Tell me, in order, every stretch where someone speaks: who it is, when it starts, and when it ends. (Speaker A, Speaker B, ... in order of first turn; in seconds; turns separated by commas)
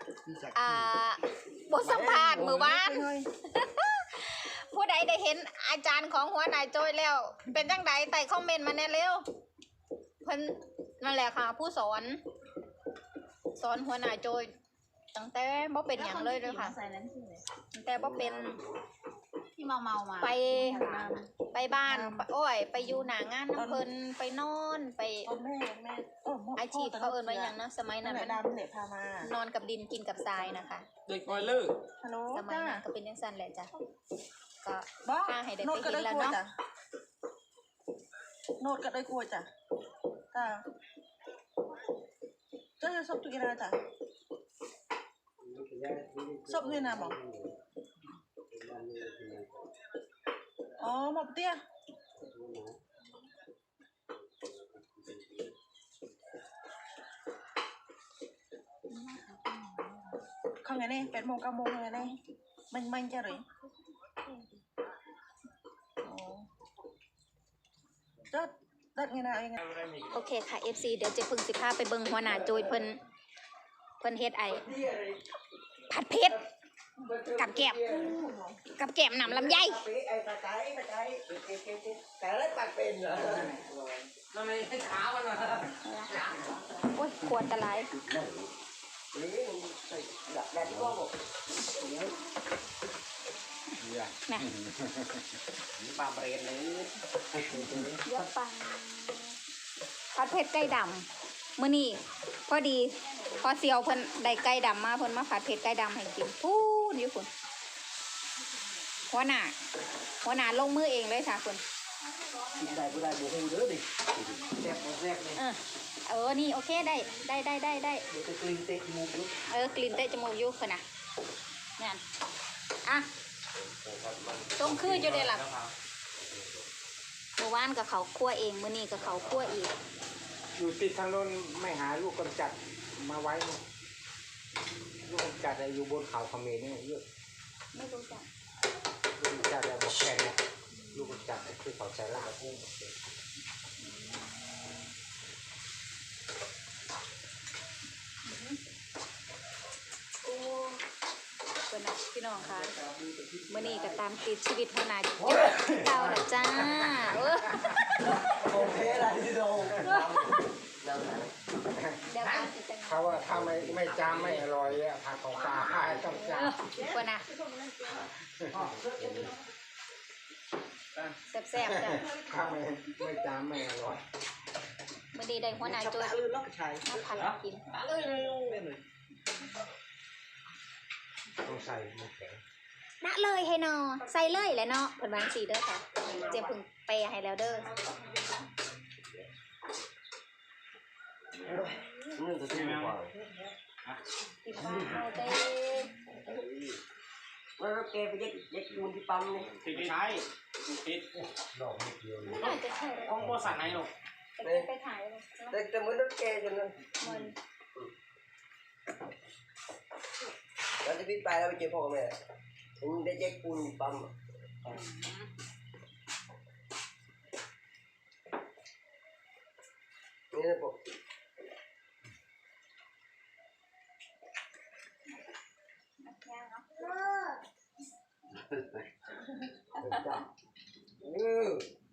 Speaker A: 0.2-0.9, Speaker B: 0.5-9.2, Speaker A: 1.8-2.7, Speaker C: 2.6-3.3, Speaker B: 10.2-12.2, Speaker B: 13.6-14.5, Speaker B: 15.1-16.8, Speaker D: 16.0-17.4, Speaker B: 17.7-18.6, Speaker A: 18.0-18.6, Speaker D: 19.6-20.8, Speaker B: 20.2-25.3, Speaker C: 20.5-21.3, Speaker C: 21.8-22.3, Speaker C: 23.5-23.9, Speaker C: 25.2-29.3, Speaker B: 26.6-28.5, Speaker B: 29.2-31.6, Speaker E: 31.1-31.8, Speaker C: 32.0-32.8, Speaker B: 32.3-33.7, Speaker B: 34.6-36.4, Speaker C: 35.0-36.5, Speaker C: 38.6-39.5, Speaker C: 40.3-40.6, Speaker C: 42.8-43.8, Speaker A: 45.4-47.5, Speaker C: 46.4-47.2, Speaker A: 48.5-49.6, Speaker C: 50.8-51.6, Speaker A: 52.2-52.8, Speaker A: 54.6-55.5, Speaker B: 58.9-60.1, Speaker C: 60.6-62.2, Speaker C: 62.7-63.5, Speaker B: 66.0-66.4, Speaker C: 68.3-69.6, Speaker E: 69.6-70.1, Speaker B: 70.1-73.0, Speaker A: 72.3-72.6, Speaker B: 74.0-74.7, Speaker A: 74.5-75.2, Speaker B: 75.9-76.4, Speaker A: 77.0-78.2, Speaker B: 77.4-77.8, Speaker C: 77.8-78.6, Speaker B: 78.7-79.8, Speaker A: 79.2-83.6, Speaker E: 84.2-86.5, Speaker B: 85.8-86.3, Speaker B: 86.9-87.9, Speaker A: 89.1-91.1, Speaker F: 90.7-91.0, Speaker F: 93.8-95.4, Speaker E: 95.8-98.0, Speaker F: 97.4-98.0, Speaker B: 98.0-99.3, Speaker B: 100.1-101.0, Speaker B: 101.6-107.3, Speaker B: 109.1-109.5, Speaker B: 110.2-111.6, Speaker E: 112.5-115.4, Speaker B: 115.3-118.0, Speaker E: 118.1-119.3, Speaker B: 119.5-120.8, Speaker A: 123.6-124.6, Speaker B: 124.6-125.4, Speaker E: 124.6-125.7, Speaker B: 127.4-129.7, Speaker F: 130.6-133.6, Speaker F: 135.0-137.0, Speaker B: 137.7-138.3, Speaker F: 139.2-140.4, Speaker B: 140.8-141.2, Speaker F: 140.9-142.8, Speaker B: 143.8-144.7, Speaker B: 148.2-148.6, Speaker B: 150.2-150.8, Speaker B: 151.7-152.7, Speaker E: 152.4-154.0, Speaker B: 153.5-158.0, Speaker F: 155.5-157.7, Speaker A: 158.2-161.3, Speaker B: 159.8-160.1, Speaker F: 161.7-162.1, Speaker B: 162.1-163.2, Speaker E: 162.2-162.5, Speaker F: 162.8-166.6, Speaker E: 163.3-164.5, Speaker E: 165.6-166.0, Speaker B: 166.1-167.3, Speaker C: 166.8-167.9, Speaker E: 167.9-169.4, Speaker F: 168.4-169.3, Speaker B: 171.3-172.1, Speaker F: 171.5-174.0, Speaker B: 175.1-176.2, Speaker E: 175.7-178.8, Speaker B: 176.8-177.8, Speaker F: 181.4-182.4, Speaker B: 183.0-187.7, Speaker E: 186.0-186.4, Speaker A: 191.5-193.1, Speaker E: 192.5-193.0, Speaker B: 194.4-195.9, Speaker A: 194.6-195.0, Speaker A: 196.1-196.8, Speaker A: 197.6-199.6, Speaker E: 199.6-200.3, Speaker E: 200.8-201.1, Speaker F: 201.3-202.6, Speaker B: 202.3-203.3, Speaker E: 202.3-203.9, Speaker F: 203.1-203.8, Speaker B: 204.4-205.6, Speaker A: 204.4-204.7, Speaker A: 205.5-206.8, Speaker B: 207.0-207.3, Speaker A: 210.8-212.1, Speaker A: 212.8-214.1, Speaker B: 214.8-215.2, Speaker A: 220.3-220.9, Speaker B: 226.0-227.0, Speaker A: 229.8-230.2, Speaker A: 231.0-231.7